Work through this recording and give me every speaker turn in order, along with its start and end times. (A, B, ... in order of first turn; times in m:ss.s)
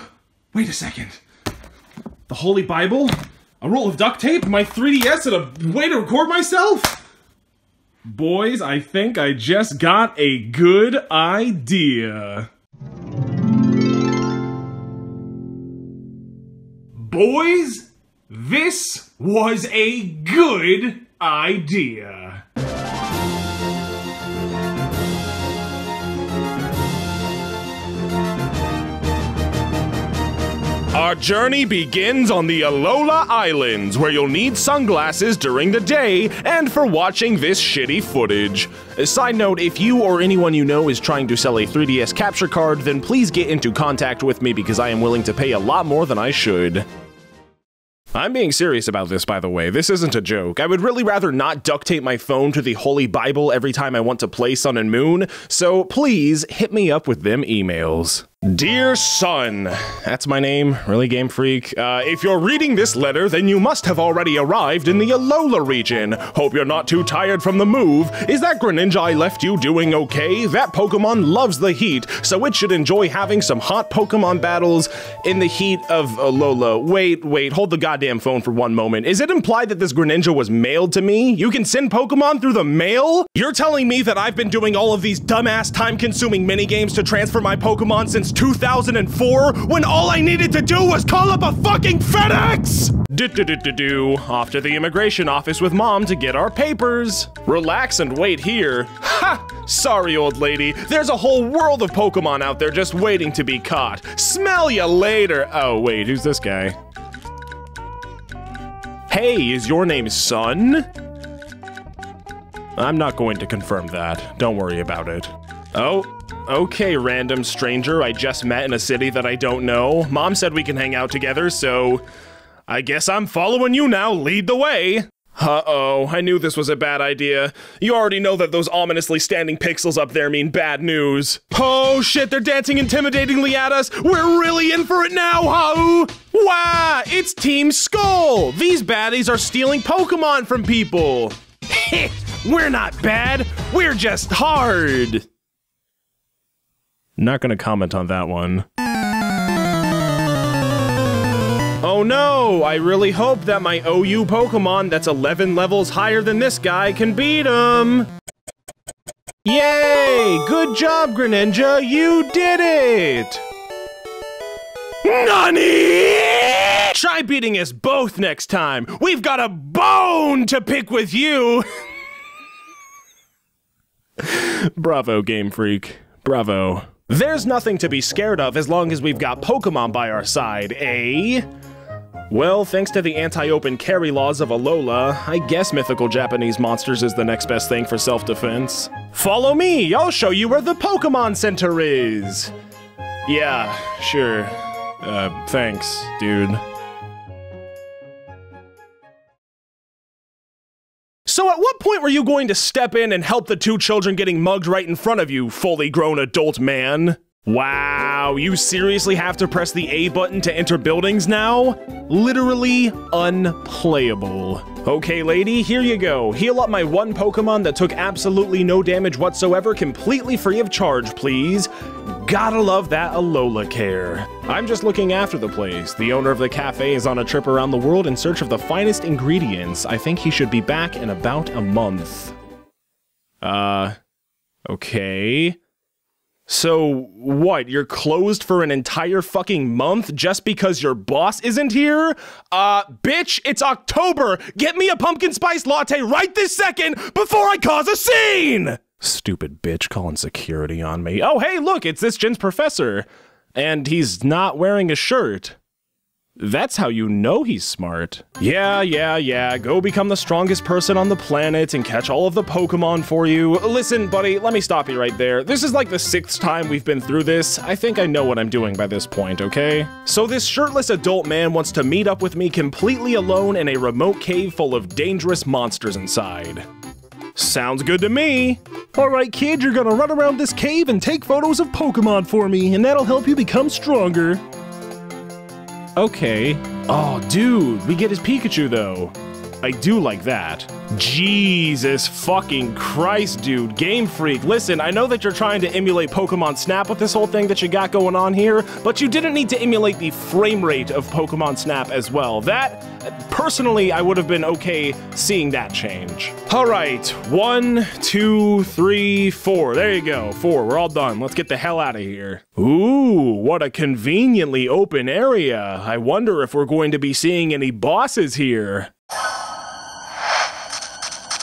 0:00.5-0:01.2 A
0:02.3-0:07.0 A
0:08.0-0:12.5 A
0:16.9-0:22.4 A
0:30.9-0:46.8 A
0:48.1-1:46.7 A
1:49.1-1:50.9 A
1:52.8-2:02.0 A
2:02.7-2:25.2 A
2:27.2-2:28.6 A
2:31.8-2:38.1 A
2:39.4-2:43.4 A
2:45.0-2:51.7 A
2:54.2-3:01.4 A
3:02.3-3:12.5 A
3:13.2-3:16.6 A
3:21.2-3:52.3 A
3:53.4-3:53.9 A
3:54.7-3:55.6 A
3:56.5-4:15.6 A
4:16.4-4:36.6 A
4:37.4-4:44.4 A
4:46.0-5:18.9 A